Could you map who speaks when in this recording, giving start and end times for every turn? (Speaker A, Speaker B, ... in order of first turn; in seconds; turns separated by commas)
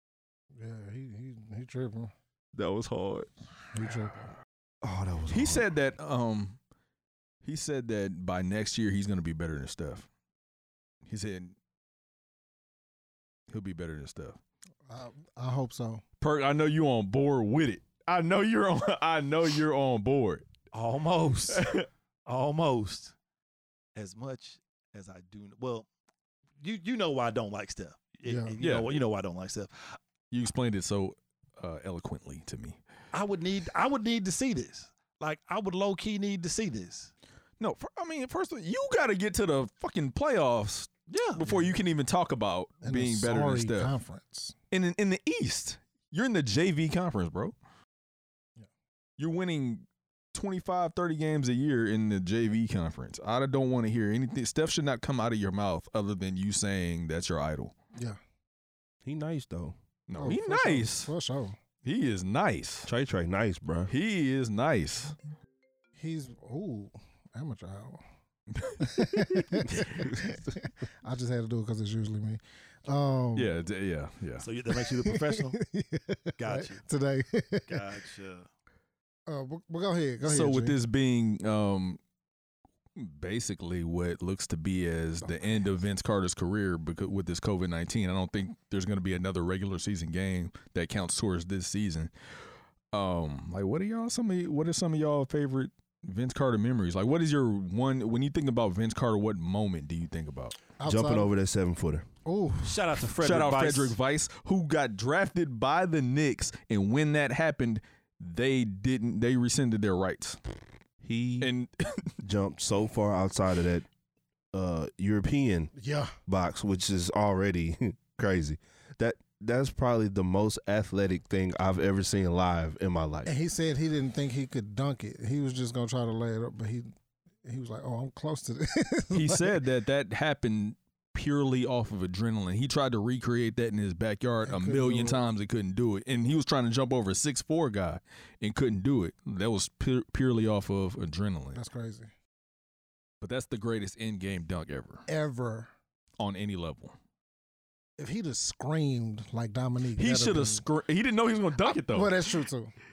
Speaker A: 0.5-2.1, Speaker B: 2.5-3.3, Speaker A: 3.7-4.2, Speaker B: 4.8-5.7, Speaker C: 5.3-6.6, Speaker C: 7.4-10.1, Speaker C: 11.1-11.5, Speaker C: 13.5-14.4, Speaker A: 14.9-16.0, Speaker C: 16.2-20.4, Speaker D: 20.7-21.7, Speaker C: 21.5-21.9, Speaker D: 22.2-23.1, Speaker D: 23.9-25.9, Speaker D: 26.6-30.0, Speaker A: 28.2-28.5, Speaker C: 28.6-29.0, Speaker C: 30.3-32.8, Speaker D: 33.1-37.1, Speaker C: 37.6-43.9, Speaker D: 41.1-41.4, Speaker A: 42.8-44.5, Speaker C: 44.7-47.5, Speaker C: 49.2-57.7, Speaker B: 59.0-59.8, Speaker C: 60.1-61.1, Speaker A: 60.2-61.6, Speaker C: 61.8-62.9, Speaker B: 62.8-63.9, Speaker C: 63.9-65.2, Speaker A: 66.0-68.0, Speaker C: 68.5-68.8, Speaker A: 68.8-73.5, Speaker B: 69.6-70.6, Speaker C: 73.3-74.5, Speaker D: 74.4-75.6, Speaker A: 74.7-77.9, Speaker D: 76.4-76.8, Speaker D: 77.7-78.5, Speaker A: 79.3-80.8, Speaker C: 80.2-82.0, Speaker C: 83.0-92.1, Speaker A: 85.2-85.5, Speaker C: 92.9-100.5, Speaker A: 100.8-101.3, Speaker B: 100.8-102.1, Speaker A: 102.2-102.8, Speaker D: 102.6-104.0, Speaker C: 103.2-110.4, Speaker B: 111.0-111.5, Speaker C: 111.4-112.2, Speaker B: 112.2-113.9, Speaker B: 114.5-115.7, Speaker A: 115.8-116.1, Speaker B: 116.3-123.3, Speaker A: 123.2-126.9, Speaker A: 127.4-129.5, Speaker C: 129.1-141.6, Speaker A: 134.4-135.2, Speaker A: 141.5-142.1, Speaker C: 143.2-145.1, Speaker A: 145.1-145.7, Speaker C: 146.2-146.9, Speaker A: 148.0-150.6, Speaker C: 150.0-152.3, Speaker A: 151.6-152.7